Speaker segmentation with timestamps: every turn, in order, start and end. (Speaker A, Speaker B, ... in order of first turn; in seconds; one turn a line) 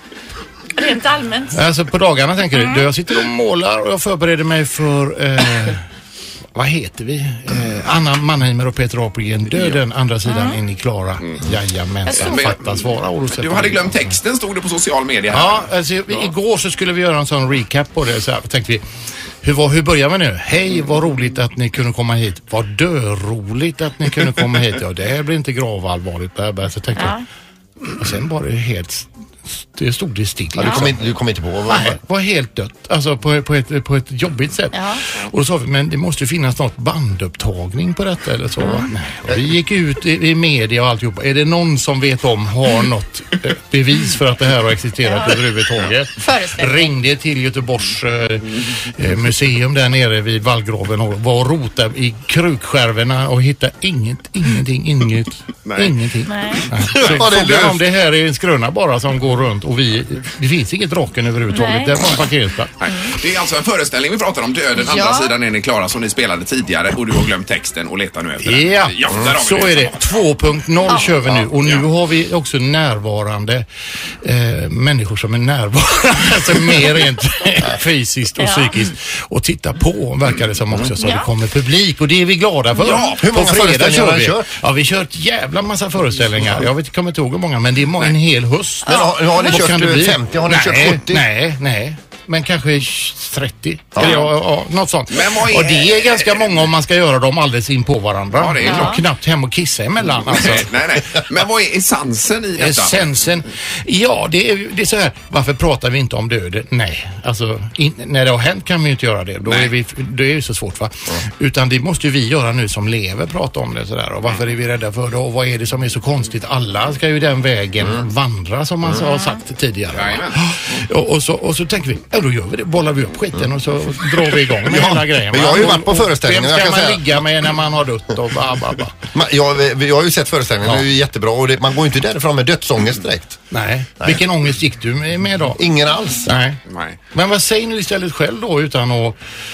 Speaker A: 0.8-1.6
Speaker B: 1.5-5.9
Speaker A: 2.6-2.9
Speaker B: 6.5-14.2
Speaker A: 10.3-10.6
Speaker A: 12.1-12.4
Speaker C: 12.1-16.3
Speaker B: 15.3-18.8
Speaker B: 19.4-27.1
Speaker A: 26.9-27.2
Speaker B: 27.9-31.0
Speaker D: 30.5-32.0
Speaker B: 31.7-62.7
Speaker A: 34.7-35.0
Speaker A: 45.0-45.5
Speaker A: 46.1-46.9
Speaker C: 55.6-55.9
Speaker A: 56.3-56.7
Speaker D: 56.9-57.8
Speaker A: 61.5-62.1
Speaker C: 62.8-70.0
Speaker A: 64.8-65.3
Speaker B: 68.4-73.6
Speaker A: 70.9-71.1
Speaker C: 71.3-71.9
Speaker B: 74.2-100.8
Speaker A: 78.4-78.7
Speaker A: 81.0-81.3
Speaker C: 82.8-83.2
Speaker D: 83.1-84.5
Speaker A: 88.8-89.5
Speaker D: 88.8-91.2
Speaker C: 94.0-94.3
Speaker C: 95.1-96.6
Speaker C: 98.3-99.0
Speaker A: 98.6-99.0
Speaker C: 100.2-103.1
Speaker B: 102.6-128.9
Speaker C: 109.5-109.7
Speaker A: 119.0-119.3
Speaker C: 119.9-120.4
Speaker D: 124.6-127.2
Speaker D: 129.1-133.4
Speaker B: 133.5-135.6
Speaker D: 134.0-134.2
Speaker D: 135.6-136.3
Speaker B: 136.2-136.6
Speaker C: 136.7-137.0
Speaker B: 137.1-139.2